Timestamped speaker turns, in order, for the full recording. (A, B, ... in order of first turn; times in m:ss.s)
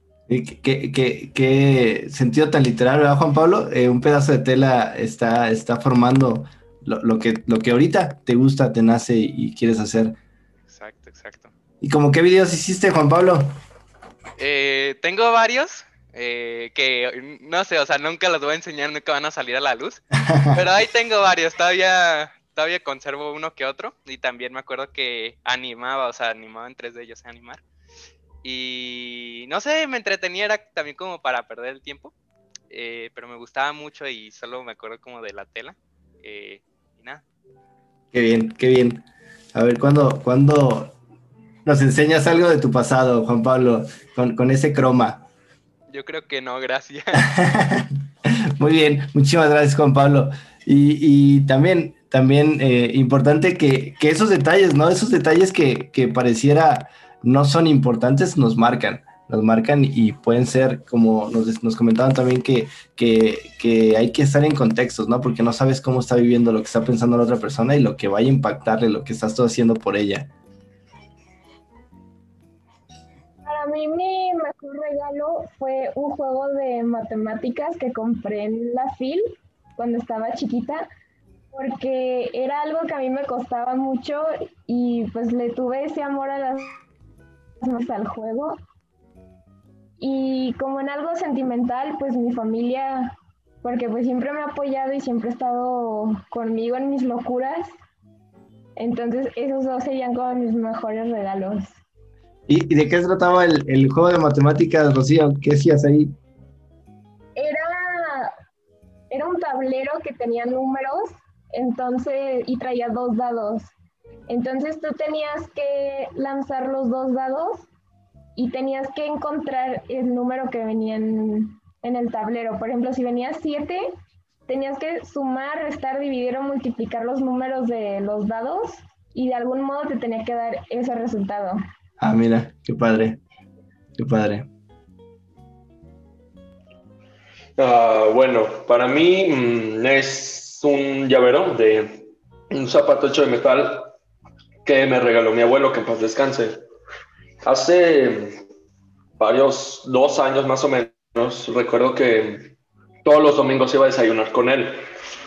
0:00.3-0:10.2 A
0:10.7-0:11.5 B
0:11.8-0:13.6 A
0:14.4-0:27.6 B
0:20.2-0:20.6 A
0:28.4-0:32.1 B
0:32.7-0:37.2 B
0:38.1-0:40.9 A
0:41.6-0:45.3 A
0:45.9-0:47.3 B
0:47.2-0:48.0 A
0:48.6-1:10.3 A
1:13.4-1:19.2 C
1:19.8-1:20.9 C
1:21.5-1:26.8 C
1:27.6-1:28.6 C
1:30.0-1:37.7 C
1:38.8-1:41.7 C
1:42.5-1:46.1 A
1:47.4-1:48.3 C
1:49.1-1:53.7 C
1:54.3-1:57.7 C
1:58.4-2:03.9 C
2:04.5-2:11.6 C
2:12.0-2:13.2 A
2:14.0-2:14.5 A
2:17.6-2:23.9 D
2:24.6-2:26.6 D
2:27.4-2:28.4 D
2:29.2-2:34.8 D